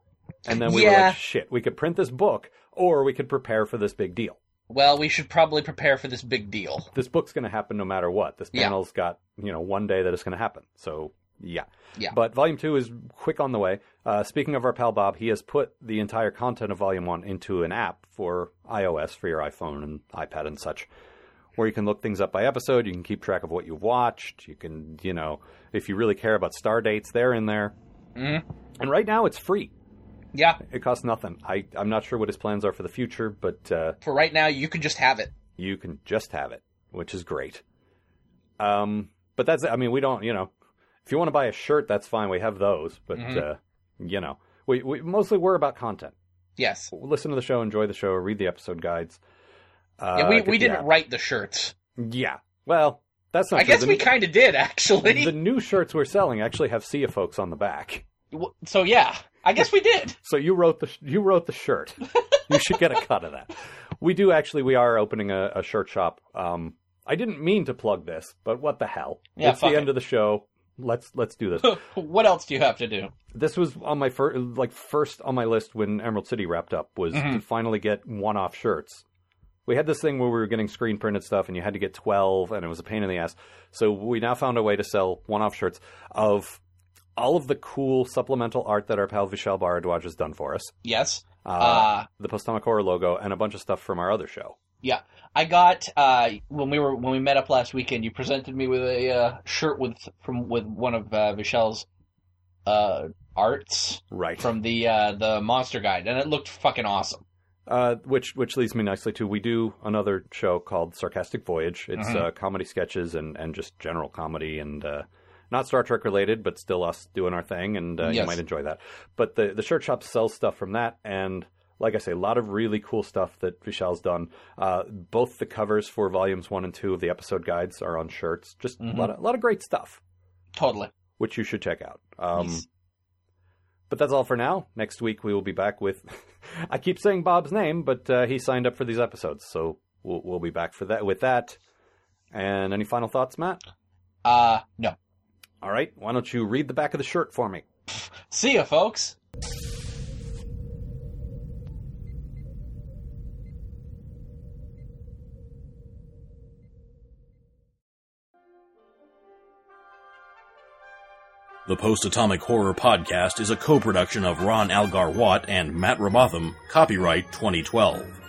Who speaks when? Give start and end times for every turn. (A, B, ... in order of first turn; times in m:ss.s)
0:00.4-0:04.4 A
0:00.5-0:01.2 B
0:04.7-0:06.9 B
0:06.9-0:20.9 A
0:21.6-0:27.8 A
0:28.2-0:28.4 B
0:28.8-0:29.7 A
0:30.3-0:30.6 B
0:30.6-0:34.0 A
0:34.0-0:35.3 B
0:35.6-0:37.6 A
0:38.6-0:40.5 A
0:41.0-0:46.1 A
0:43.2-0:43.4 B
0:46.6-0:46.9 B
0:46.9-0:49.2 A
0:50.0-0:50.9 A
0:50.2-0:51.7 B
0:52.0-0:54.2 A
0:53.6-0:55.4 B
0:55.0-0:58.1 A
0:58.3-1:00.2 B
1:00.2-1:11.9 A
1:09.4-1:10.0 B
1:11.6-1:13.1 B
1:13.3-1:19.0 A
1:17.1-1:17.4 B
1:19.7-1:26.6 A
1:27.2-1:30.8 A
1:30.8-1:32.1 B
1:31.4-1:34.6 A
1:34.8-1:41.9 B
1:42.7-1:47.2 B
1:44.1-1:44.5 A
1:47.7-2:10.0 A
1:52.0-1:52.3 B
1:58.0-1:58.4 B
2:08.8-2:09.1 B
2:10.6-2:10.9 B
2:11.2-2:12.7 A
2:12.4-2:12.6 B
2:13.9-2:21.6 A
2:22.3-2:23.6 A
2:24.2-2:25.0 B
2:25.6-2:27.6 A
2:28.3-2:29.2 B
2:41.7-2:48.2 C